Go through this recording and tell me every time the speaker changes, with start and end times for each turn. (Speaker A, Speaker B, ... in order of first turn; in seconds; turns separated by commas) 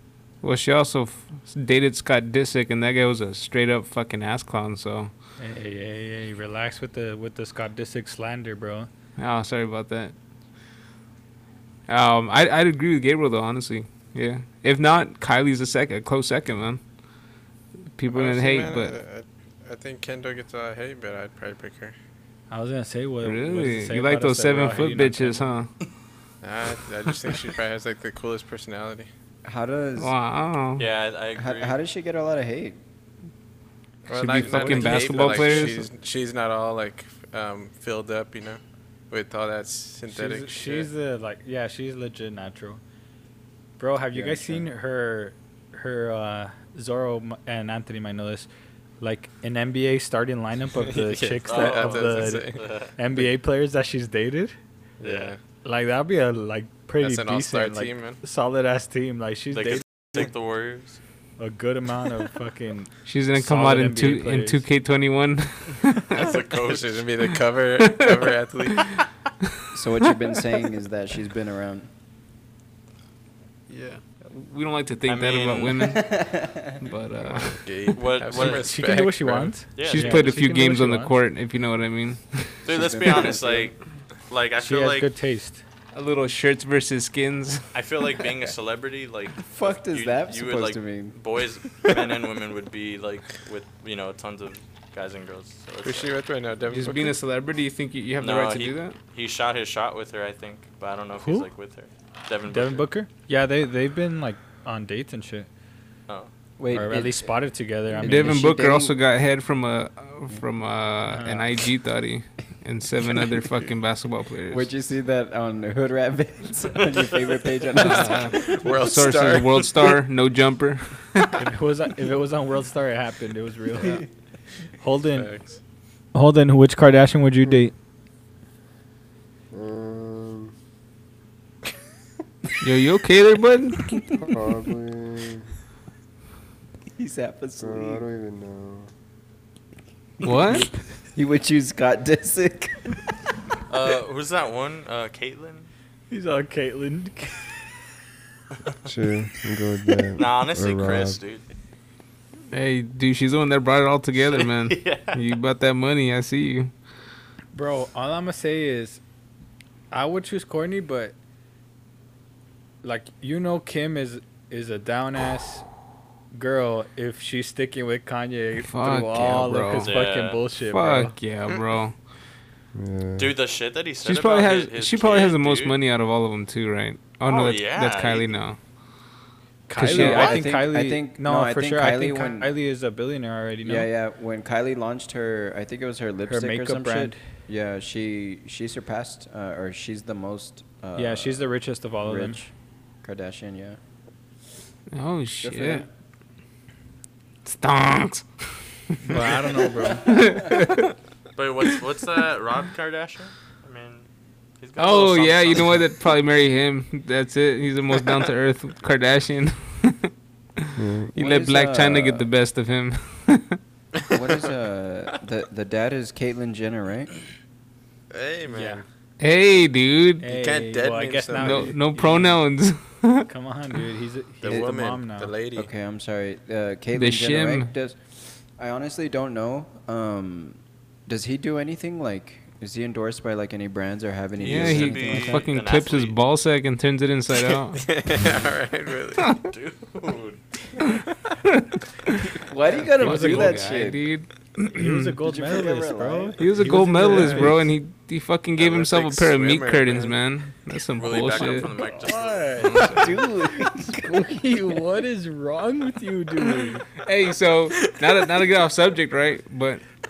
Speaker A: 0.4-5.1, Speaker B: 5.4-8.9, Speaker A: 9.2-10.1, Speaker A: 11.9-16.8, Speaker A: 18.0-18.9, Speaker C: 18.1-21.9, Speaker B: 22.5-25.4, Speaker A: 23.2-25.7, Speaker C: 26.4-29.1, Speaker D: 29.4-30.1, Speaker A: 30.0-30.9, Speaker E: 30.8-31.8, Speaker D: 31.4-32.8, Speaker C: 34.0-38.6, Speaker A: 34.1-35.8, Speaker B: 34.4-35.7, Speaker C: 39.1-40.9, Speaker B: 40.1-42.8, Speaker B: 43.8-48.5, Speaker D: 44.1-44.7, Speaker B: 49.0-54.5, Speaker C: 50.8-52.6, Speaker E: 51.4-52.9, Speaker C: 55.0-55.4, Speaker E: 55.0-55.3, Speaker B: 55.6-60.3, Speaker C: 57.0-58.2, Speaker E: 59.5-61.0, Speaker B: 61.4-64.6, Speaker A: 63.0-66.3, Speaker E: 66.1-67.0, Speaker C: 66.1-69.0, Speaker A: 67.8-68.2, Speaker D: 69.7-71.9, Speaker C: 73.7-74.0, Speaker A: 74.2-76.1, Speaker E: 75.1-75.9, Speaker D: 75.8-76.8, Speaker A: 76.8-77.7, Speaker C: 77.2-79.6, Speaker E: 78.0-78.7, Speaker B: 78.4-81.1, Speaker E: 79.8-80.3, Speaker A: 79.8-82.6, Speaker E: 82.6-85.1, Speaker D: 82.7-83.7, Speaker B: 84.6-85.6, Speaker A: 85.9-87.6, Speaker E: 87.7-96.1, Speaker D: 89.5-91.2, Speaker C: 95.8-97.2, Speaker A: 96.7-99.0, Speaker E: 98.2-102.8, Speaker B: 101.2-101.5, Speaker B: 102.5-105.5, Speaker D: 106.6-107.3, Speaker B: 106.7-108.4, Speaker D: 107.9-109.0, Speaker A: 108.0-114.7, Speaker B: 111.1-111.4, Speaker D: 114.5-119.2, Speaker A: 117.8-121.4, Speaker C: 117.8-119.7, Speaker B: 121.4-124.0, Speaker B: 124.8-125.3, Speaker C: 125.1-125.6, Speaker B: 126.1-127.7, Speaker F: 129.5-130.5, Speaker A: 132.6-133.9, Speaker F: 134.2-135.5, Speaker D: 136.9-138.0, Speaker F: 137.6-138.9, Speaker A: 140.2-140.7, Speaker D: 141.1-143.0, Speaker E: 143.7-145.7, Speaker B: 146.1-147.5, Speaker F: 148.8-151.2, Speaker E: 150.2-151.4, Speaker A: 152.5-156.7, Speaker E: 154.3-155.2, Speaker B: 157.5-159.0, Speaker B: 159.9-161.1, Speaker B: 162.8-165.7, Speaker B: 166.3-171.1, Speaker A: 168.6-169.9, Speaker E: 169.8-170.4, Speaker A: 170.7-171.9, Speaker F: 172.7-173.3, Speaker E: 173.2-175.7, Speaker A: 174.0-178.6, Speaker E: 177.3-178.4, Speaker B: 179.7-183.9, Speaker A: 179.7-180.4, Speaker D: 179.8-182.5, Speaker D: 183.6-191.5, Speaker B: 186.3-187.2, Speaker B: 190.9-192.4, Speaker D: 192.0-192.5, Speaker D: 193.0-193.8, Speaker A: 194.9-195.8, Speaker D: 195.4-195.9, Speaker A: 197.4-199.3, Speaker B: 199.0-200.3, Speaker A: 199.9-200.9, Speaker E: 201.3-204.1, Speaker E: 204.6-205.9, Speaker A: 204.8-210.1, Speaker F: 210.8-211.1, Speaker A: 211.1-213.6, Speaker D: 211.2-212.3, Speaker D: 214.1-217.1, Speaker C: 218.1-218.8, Speaker B: 218.5-218.8, Speaker A: 219.2-220.2, Speaker B: 220.2-222.3, Speaker C: 220.3-221.8, Speaker A: 221.3-223.3, Speaker B: 223.3-225.3, Speaker C: 224.4-225.7, Speaker D: 225.5-228.0, Speaker A: 226.9-227.7, Speaker D: 228.5-235.4, Speaker A: 234.4-237.8, Speaker E: 234.4-236.2, Speaker B: 235.1-235.4, Speaker C: 237.5-239.2, Speaker E: 239.3-240.4, Speaker A: 241.4-242.2, Speaker D: 242.3-244.0, Speaker A: 242.9-245.2, Speaker B: 242.9-243.7, Speaker B: 244.7-247.6, Speaker D: 245.2-246.7, Speaker A: 246.4-251.7, Speaker C: 247.1-247.5, Speaker C: 248.6-250.2, Speaker E: 251.0-253.1, Speaker B: 251.7-253.1, Speaker D: 252.8-254.8, Speaker B: 253.6-256.9, Speaker A: 257.0-259.8